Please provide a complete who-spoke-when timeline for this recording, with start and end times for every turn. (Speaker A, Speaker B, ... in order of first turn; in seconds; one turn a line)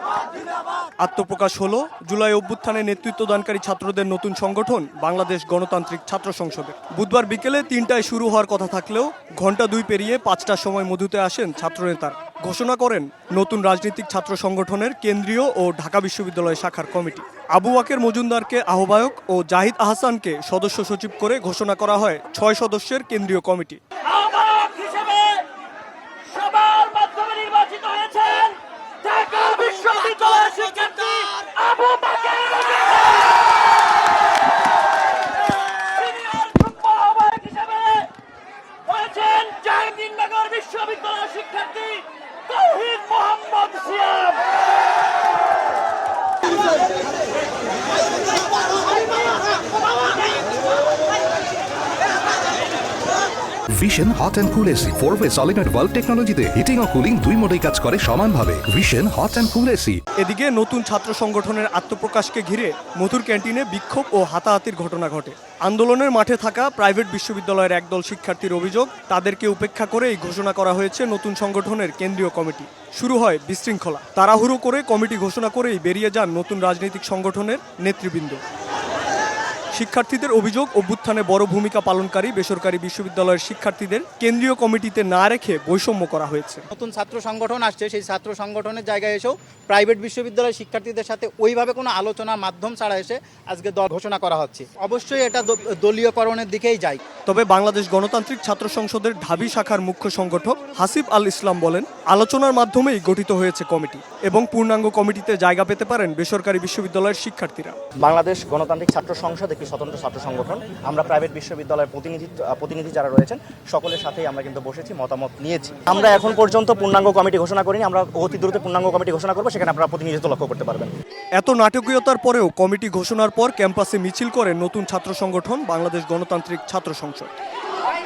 Speaker A: 1.0-23.8
Speaker B: 24.1-25.5
Speaker B: 26.3-33.1
Speaker B: 36.0-38.1
Speaker B: 38.9-44.4
Speaker C: 53.8-60.0
Speaker A: 60.2-78.4
Speaker A: 79.7-86.7
Speaker D: 86.7-97.0
Speaker A: 97.3-107.8
Speaker E: 108.0-120.9
Speaker A: 121.4-127.3